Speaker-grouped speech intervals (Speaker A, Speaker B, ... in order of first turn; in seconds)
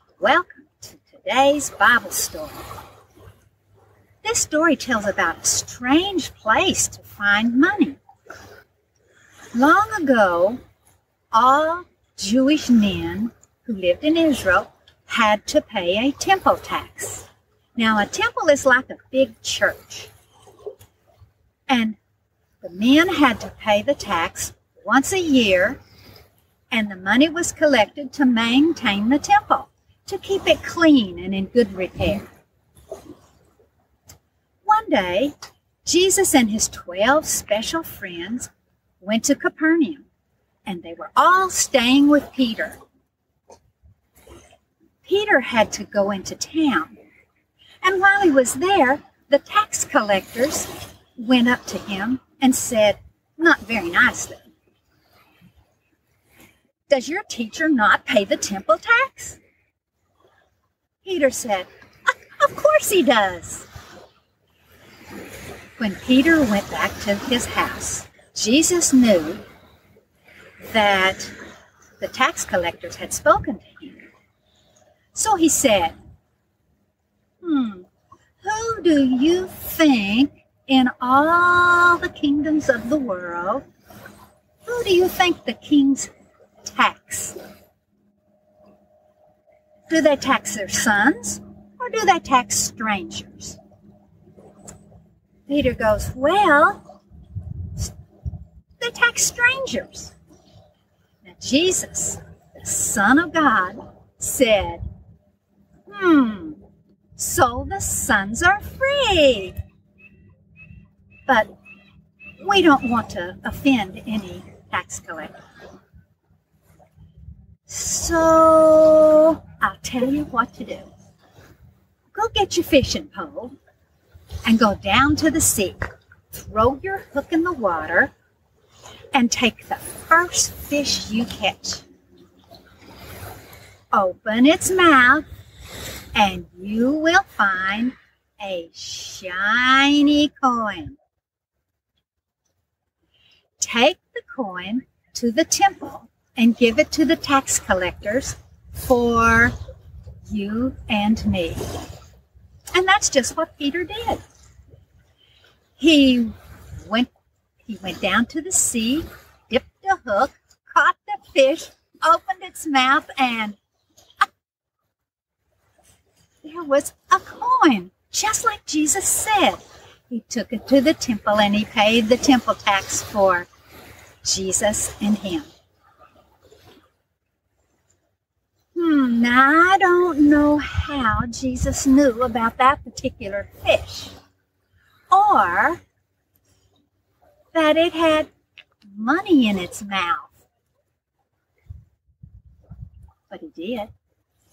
Speaker A: 0.2-2.7, 4.2-8.0, 9.5-10.6, 11.3-20.1, 21.7-22.0, 22.6-25.8, 26.7-32.3, 34.6-40.1, 40.7-42.8, 45.0-47.0, 47.8-54.5, 56.9-59.4, 61.0-63.7, 65.8-69.4, 70.6-71.3, 72.0-74.0, 75.1-76.0, 77.4-77.9, 78.4-83.7, 84.7-86.1, 86.6-87.4, 89.9-93.6, 95.5-96.8, 98.8-100.1, 101.2-104.9, 105.9-106.6, 107.2-109.6, 111.3-111.5, 112.4-115.3, 117.7-120.9, 122.1-123.6, 124.5-128.1, 129.1-131.8, 133.9-135.3, 136.2-141.0, 143.6-149.6, 150.2-151.7, 152.7-154.2, 155.8-157.1, 157.7-163.6, 166.4-173.5, 174.2-175.5, 178.8-184.1, 185.1-185.8, 187.5-188.3, 188.9-190.4, 193.3-193.9